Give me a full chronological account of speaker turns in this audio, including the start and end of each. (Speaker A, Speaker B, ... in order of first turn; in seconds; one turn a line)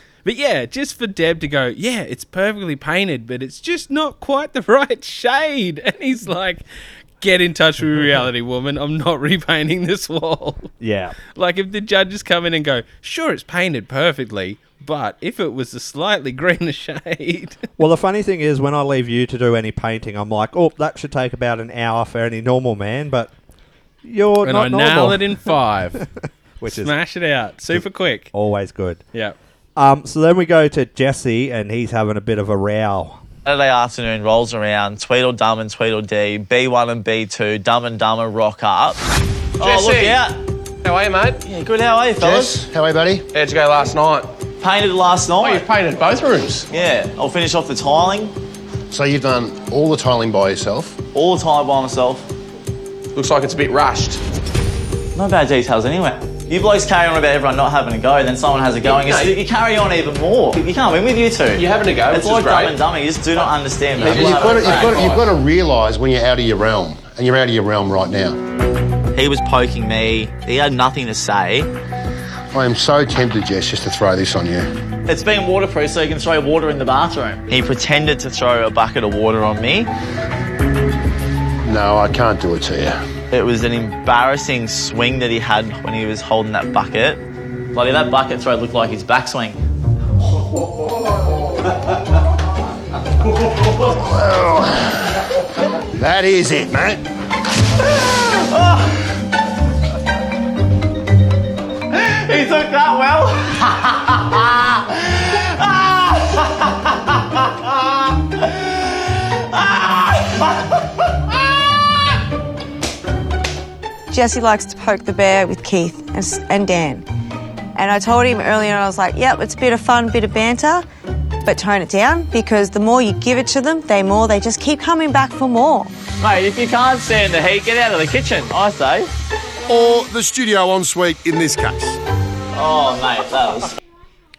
Speaker A: 0.2-6.6
Speaker A: 7.2-10.7
Speaker B: 10.8-11.1
Speaker A: 11.3-17.6
Speaker B: 17.8-23.3
Speaker B: 24.0-26.1
Speaker A: 24.4-26.0
Speaker B: 26.6-26.9
Speaker A: 26.6-28.3
Speaker B: 27.7-29.0
Speaker B: 29.8-33.2
Speaker C: 33.4-39.0
Speaker D: 39.6-40.2
Speaker C: 39.6-40.4
Speaker D: 40.8-41.4
Speaker C: 41.4-42.6
Speaker E: 42.2-43.2
Speaker D: 43.3-44.3
Speaker C: 44.6-45.7
Speaker D: 45.4-46.7
Speaker C: 46.7-48.3
Speaker E: 48.9-51.0
Speaker C: 51.1-52.2
Speaker D: 53.1-54.2
Speaker C: 55.1-65.1
Speaker D: 58.8-59.3
Speaker D: 61.5-62.8
Speaker D: 63.4-65.3
Speaker E: 64.0-68.4
Speaker C: 69.1-71.7
Speaker E: 72.5-74.7
Speaker C: 75.1-79.9
Speaker E: 81.6-83.0
Speaker C: 83.3-87.2
Speaker C: 87.7-89.6
Speaker E: 93.9-95.0
Speaker E: 96.0-97.0
Speaker C: 97.8-98.9
Speaker C: 101.9-111.6
Speaker F: 114.1-117.1
Speaker F: 117.8-120.8
Speaker F: 121.4-125.9
Speaker C: 126.2-129.1
Speaker G: 129.7-132.0
Speaker C: 132.5-133.8